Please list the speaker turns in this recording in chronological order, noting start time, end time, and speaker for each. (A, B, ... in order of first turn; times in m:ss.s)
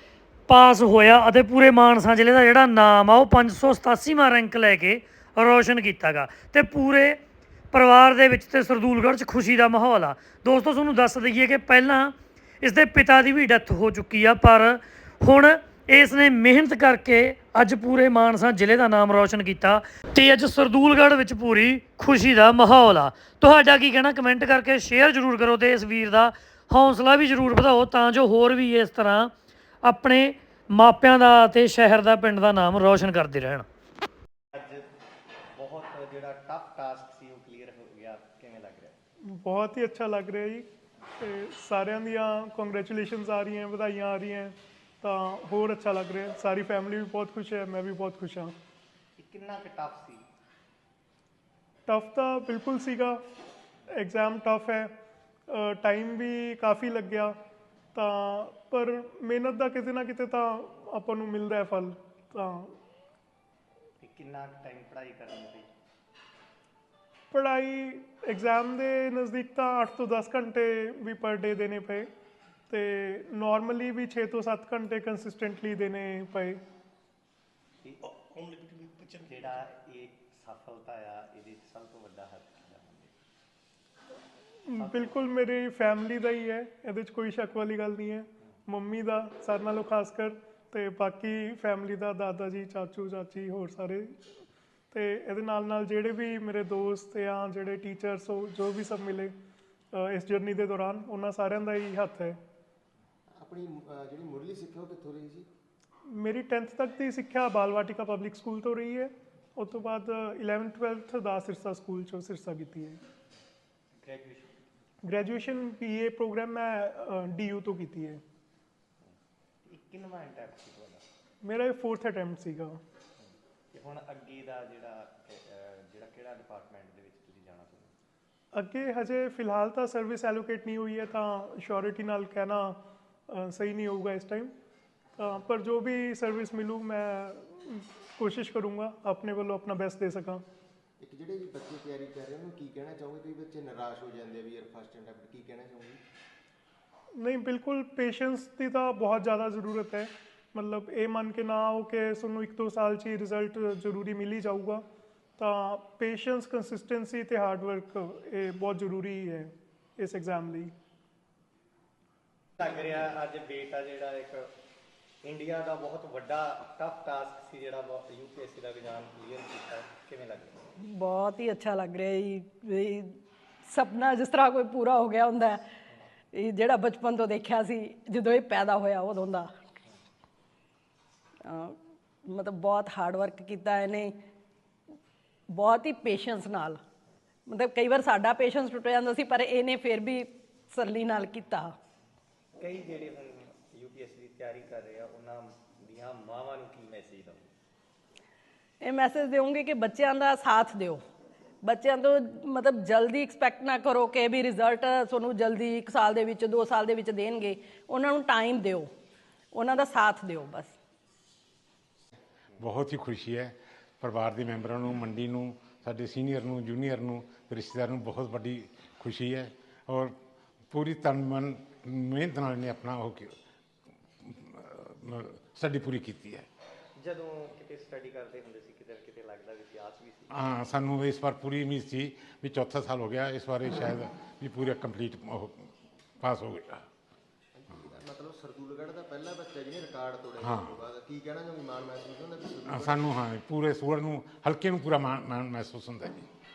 0:00.5-0:07.2 A
0:07.7-0:33.6 A
0:34.5-0:34.8 B
0:35.6-0:39.0 B
0:39.3-0:40.7 C
0:41.2-0:48.5 C
0:49.2-0:50.2 B
0:51.9-0:53.2 C
0:53.9-0:54.9 C
0:55.5-0:57.4 C
0:58.0-1:02.8 C
1:04.0-1:05.7 B
1:07.3-1:12.1 C
1:12.7-1:16.6 C
1:19.0-1:23.1 B
1:24.7-1:34.2 C
1:24.8-1:25.1 B
1:34.9-1:39.3 C
1:39.9-1:42.4 C
1:43.3-1:45.5 D
1:46.1-1:53.0 C
1:54.0-1:54.6 B
1:55.0-1:58.2 C
1:59.6-2:01.0 B
2:01.4-2:02.8 C
2:03.7-2:08.0 B
2:08.5-2:14.5 C
2:15.2-2:20.4 C
2:21.0-2:26.0 D
2:27.2-2:34.8 C
2:35.4-2:40.7 C
2:42.6-2:44.5 B
2:45.2-2:50.6 B
2:50.8-2:55.6 E
2:56.3-2:59.5 E
3:01.5-3:04.1 E
3:05.5-3:06.8 E
3:07.5-3:11.7 E
3:12.6-3:17.5 B
3:18.8-3:21.0 E
3:21.6-3:28.9 E
3:29.5-3:30.8 E
3:32.6-3:40.2 F
3:40.7-3:43.4 F
3:44.2-3:46.5 F
3:47.0-3:50.4 B
3:50.3-3:56.8 F
3:57.5-4:03.1 D
4:00.4-4:00.7 F
4:02.7-4:06.3 F